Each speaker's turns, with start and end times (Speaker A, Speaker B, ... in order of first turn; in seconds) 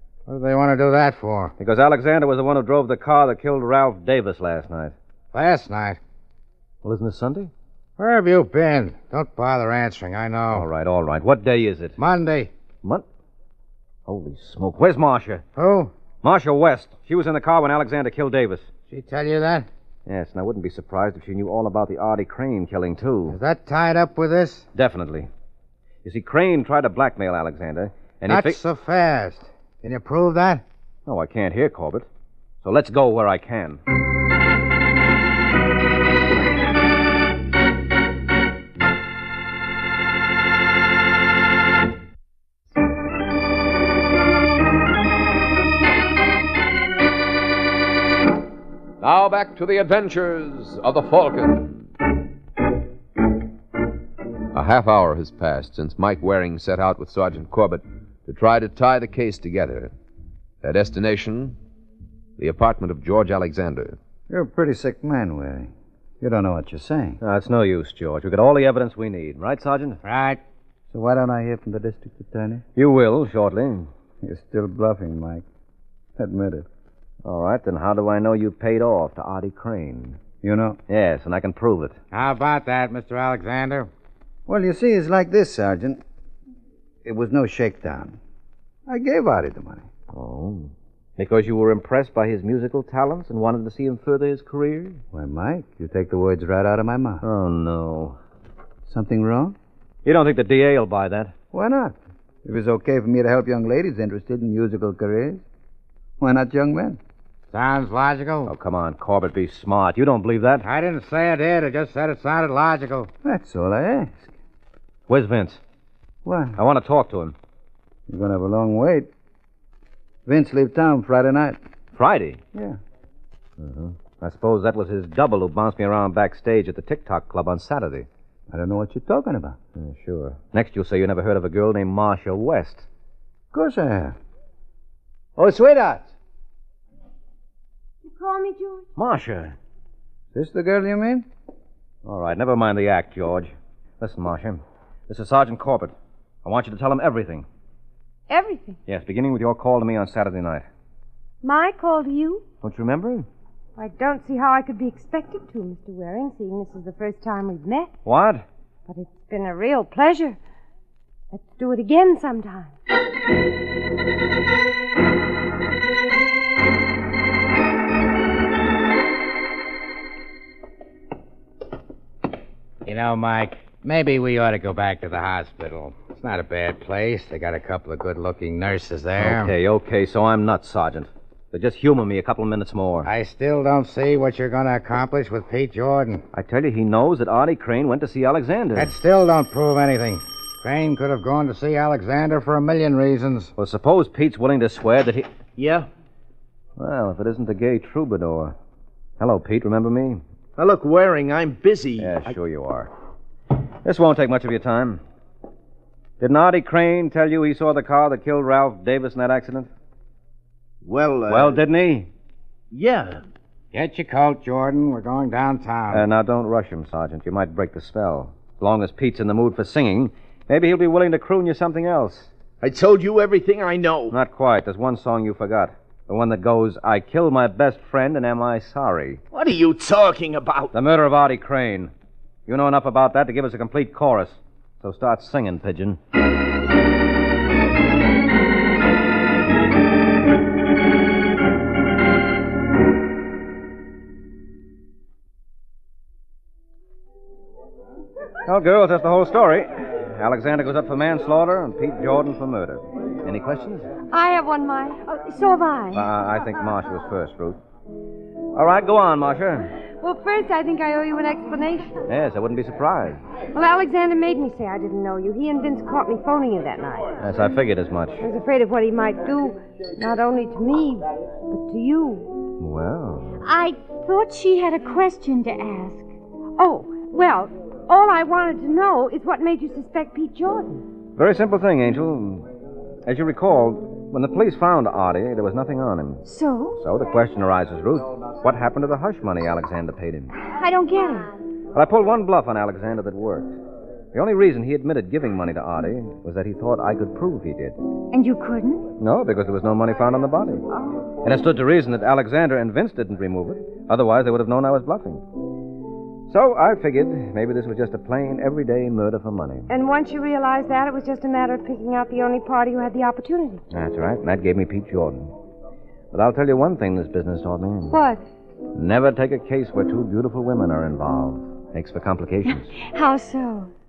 Speaker A: 0.3-1.5, 5.3-6.0, 8.0-10.7, 12.0-12.5, 15.6-15.9, 18.9-19.7, 23.3-24.7, 28.3-30.6, 70.0-70.4, 82.1-83.9, 107.5-108.5, 110.6-113.1, 172.8-179.5, 183.1-186.2, 188.8-193.5, 213.7-216.1
Speaker B: 1.6-5.0, 6.8-7.5, 10.5-12.0, 14.1-15.4, 16.2-18.7, 20.1-23.4, 24.7-25.3, 26.0-28.6, 31.1-32.1, 32.6-33.8, 67.2-70.0, 72.8-73.9, 77.2-80.2, 80.9-82.0, 90.1-95.0, 97.2-98.2, 100.0-101.3, 108.5-110.7, 115.1-115.6, 116.6-117.3, 122.0-122.4, 123.6-128.1, 129.8-132.9, 139.0-139.6, 142.0-147.5, 148.9-150.7, 152.6-153.3, 158.1-158.4, 179.2-183.1, 186.3-188.9, 193.6-195.3, 196.8-198.6, 199.2-200.2, 202.0-202.9, 203.8-205.0, 206.2-209.7, 211.3-212.1, 215.9-222.3, 224.1-229.2, 230.7-231.9, 232.5-236.0, 248.5-253.9, 255.9-257.6, 258.5-259.7, 262.1-263.2, 267.2-268.3, 272.6-273.4, 281.2-282.5, 283.1-286.2, 286.8-290.3, 291.8-293.6, 294.1-297.8, 299.0-300.7, 301.2-305.2, 306.3-309.7, 313.7-315.3, 316.1-318.0, 318.7-322.7
Speaker C: 49.0-51.8, 54.5-59.9, 60.6-61.6, 62.4-64.0
Speaker D: 64.3-67.2, 70.9-72.6, 74.2-75.4, 76.2-76.7, 80.4-80.8, 84.5-86.0, 87.0-88.2, 88.9-89.9, 95.1-97.2, 98.9-99.6, 101.5-105.4, 106.2-107.0, 113.2-114.3, 116.2-116.6, 118.1-119.1, 120.3-121.6, 128.5-129.6, 133.5-134.2, 135.4-136.1, 140.3-141.3
Speaker E: 138.1-138.9, 148.3-148.8, 151.4-152.4, 153.8-157.9, 158.9-160.4, 161.3-162.8, 254.1-256.0, 260.0-262.0, 263.5-267.1, 268.2-272.4, 276.6-280.8, 300.8-301.1, 309.7-313.6, 317.9-318.2
Speaker F: 195.6-195.9, 200.6-202.3, 210.8-211.6, 212.7-213.2, 222.6-224.2, 229.3-230.7
Speaker G: 273.4-276.1, 286.2-286.8, 290.5-291.3, 298.1-298.9, 322.5-323.7